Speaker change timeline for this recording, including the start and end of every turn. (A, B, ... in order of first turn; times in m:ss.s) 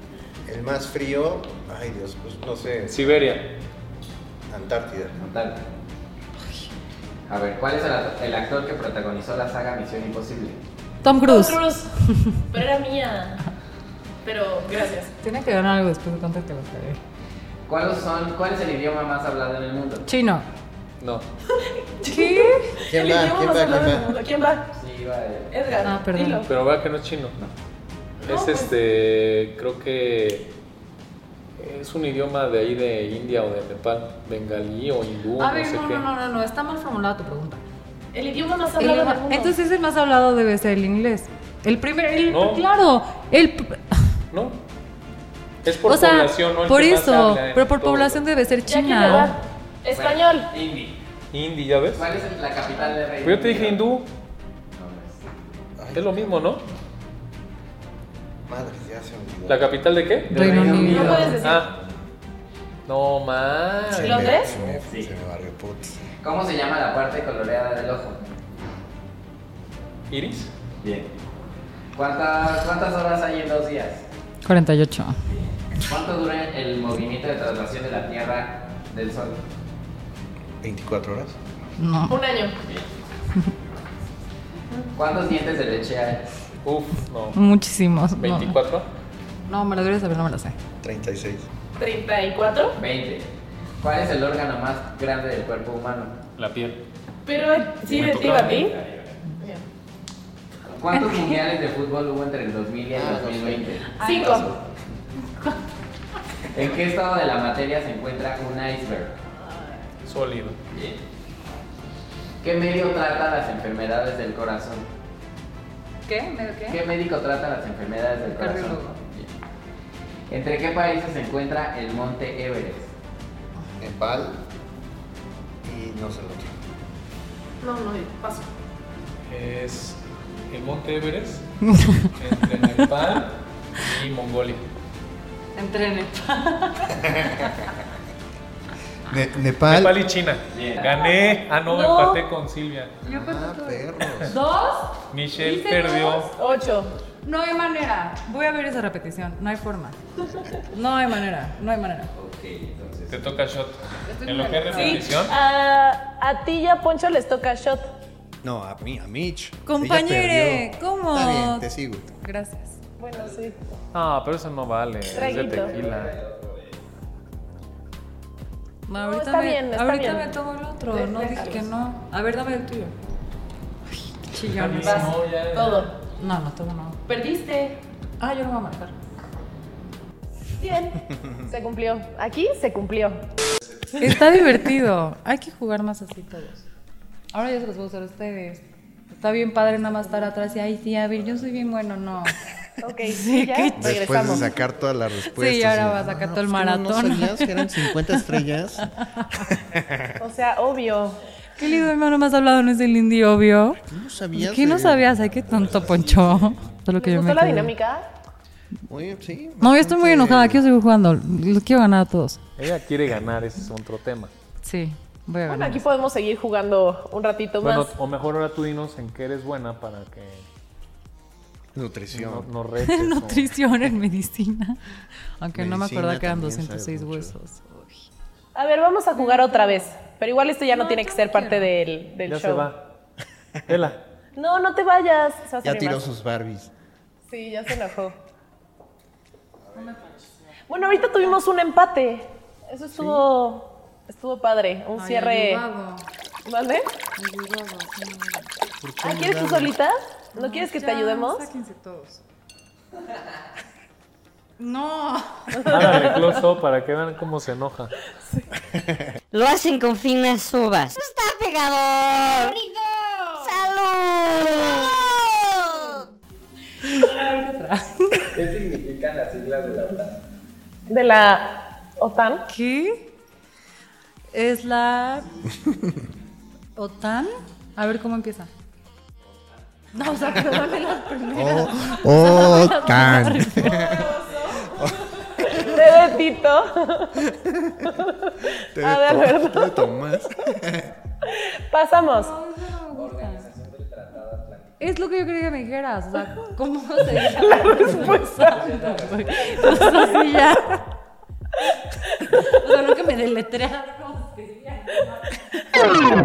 0:00.5-0:03.1 A
0:02.9-0:03.5 B
0:04.5-0:05.2 A
0:05.2-0:05.6 C
0:07.3-0:10.6 C
0:11.0-0:12.4 D
0:11.2-0:11.9 E
0:12.5-0:13.4 E
0:14.2-0:15.1 E
0:15.2-0:17.0 D
0:17.7-0:20.0 C
0:20.0-0:20.4 D
0:21.0-0:21.2 B
0:21.6-0:24.7 E
0:22.0-0:22.8 D
0:22.9-0:24.1 A
0:24.8-0:25.5 C
0:25.5-0:26.5 E
0:25.8-0:26.4 D
0:26.4-0:27.4 B
0:28.2-0:28.7 E
0:28.2-0:30.4 B
0:31.6-0:36.0 B
0:35.4-0:37.6 D
0:38.1-0:39.5 E
0:38.8-0:44.0 D
0:42.3-0:42.6 B
0:44.3-0:44.6 B
0:45.6-0:48.2 B
0:45.8-0:49.4 D
0:48.6-0:50.5 E
0:49.9-0:51.0 C
0:51.3-0:52.1 B
0:52.0-0:53.8 C
0:53.2-0:54.1 B
0:54.8-0:55.1 C
0:55.8-0:56.3 A
0:55.9-0:56.6 B
0:58.5-0:59.7 A
0:59.5-1:01.7 B
1:00.3-1:01.4 D
1:00.4-1:01.2 C
1:00.8-1:01.6 E
1:02.9-1:04.8 B
1:03.9-1:06.0 A
1:04.0-1:04.5 E
1:06.2-1:08.2 C
1:10.1-1:10.5 B
1:12.0-1:14.0 C
1:14.4-1:15.2 D
1:15.3-1:19.3 C
1:20.6-1:21.4 A
1:21.8-1:22.2 D
1:22.1-1:22.5 E
1:25.0-1:26.2 C
1:26.6-1:27.4 B
1:27.3-1:28.6 D
1:28.2-1:28.9 B
1:29.5-1:30.6 D
1:30.8-1:31.5 A
1:31.8-1:32.8 E
1:32.8-1:33.2 C
1:33.8-1:36.1 C
1:36.4-1:36.8 B
1:37.2-1:38.7 E
1:37.9-1:38.7 B
1:38.1-1:39.1 C
1:40.7-1:43.8 C
1:40.9-1:41.4 D
1:42.9-1:43.7 A
1:44.0-1:44.4 D
1:44.0-1:44.5 E
1:44.2-1:44.5 A
1:46.5-1:49.1 C
1:50.0-1:50.6 B
1:50.7-1:51.0 C
1:52.4-1:54.8 C
1:56.0-1:56.8 D
1:56.7-1:59.3 C
1:58.3-1:59.0 D
2:00.3-2:02.9 C
2:03.8-2:04.4 A
2:05.6-2:06.5 A
2:07.6-2:08.4 E
2:09.3-2:11.5 B
2:11.8-2:12.1 D
2:12.2-2:14.6 B
2:15.6-2:17.1 D
2:19.1-2:20.0 A
2:19.7-2:23.0 B
2:20.5-2:20.9 C
2:21.7-2:22.2 E
2:23.0-2:24.3 A
2:23.0-2:26.3 D
2:25.1-2:26.3 B
2:26.4-2:26.9 E
2:27.2-2:30.0 D
2:30.7-2:32.1 D
2:32.2-2:33.3 C
2:33.1-2:35.3 B
2:34.1-2:35.0 D
2:34.7-2:37.9 E
2:38.4-2:42.0 A
2:39.6-2:42.8 D
2:43.0-2:43.5 E
2:43.1-2:43.6 C
2:43.9-2:46.2 B
2:45.0-2:46.8 C
2:45.1-2:45.7 E
2:48.9-2:52.9 D
2:48.9-2:50.3 E
2:50.9-2:51.7 E
2:54.0-2:55.1 D
2:54.5-2:55.9 B
2:54.8-2:55.9 E
2:56.1-2:57.0 D
2:57.1-2:57.8 E
2:58.2-2:58.9 D
3:00.6-3:03.2 E
3:04.0-3:06.6 D
3:07.3-3:12.4 D
3:12.8-3:14.5 E
3:13.0-3:14.3 D
3:13.8-3:18.9 A
3:15.2-3:18.3 D
3:19.5-3:20.1 A
3:20.2-3:21.2 E
3:21.6-3:23.8 D
3:23.8-3:26.6 A
3:24.3-3:27.7 D
3:26.9-3:28.0 E
3:28.9-3:30.6 A
3:29.6-3:32.4 D
3:32.6-3:34.3 B
3:34.6-3:35.8 D
3:35.4-3:37.9 E
3:37.6-3:40.4 B
3:41.7-3:42.5 A
3:42.1-3:43.5 B
3:42.8-3:44.8 D
3:45.4-3:48.1 D
3:45.5-3:47.4 A
3:48.5-3:52.7 E
3:49.1-3:49.9 D
3:50.7-3:51.7 D
3:52.2-3:52.8 B
3:53.7-3:54.0 B
3:54.4-3:56.0 E
3:55.6-3:56.7 A
3:57.3-3:58.1 E
3:59.7-4:01.4 D
4:00.7-4:05.6 E
4:03.0-4:03.2 A
4:05.0-4:06.0 D
4:06.4-4:06.8 E
4:07.2-4:08.5 D
4:08.8-4:09.7 A
4:09.0-4:11.5 E
4:10.3-4:12.2 D
4:14.6-4:15.7 D
4:15.6-4:17.9 B
4:19.3-4:26.0 F
4:26.8-4:28.3 D
4:28.3-4:30.2 C
4:30.9-4:32.4 E
4:32.5-4:33.1 D
4:34.3-4:35.4 D
4:36.8-4:38.5 D
4:39.9-4:44.0 D
4:41.3-4:44.0 A
4:43.7-4:44.9 E
4:44.7-4:45.7 A
4:45.4-4:46.0 C
4:45.6-4:47.2 E
4:47.2-4:47.9 A
4:47.9-4:49.9 E
4:48.5-4:50.9 A
4:51.3-4:52.3 E
4:52.1-4:53.5 D
4:52.9-4:54.8 C
4:54.8-5:00.8 D
4:57.6-4:58.2 E
4:58.4-5:00.4 C
5:02.4-5:06.0 D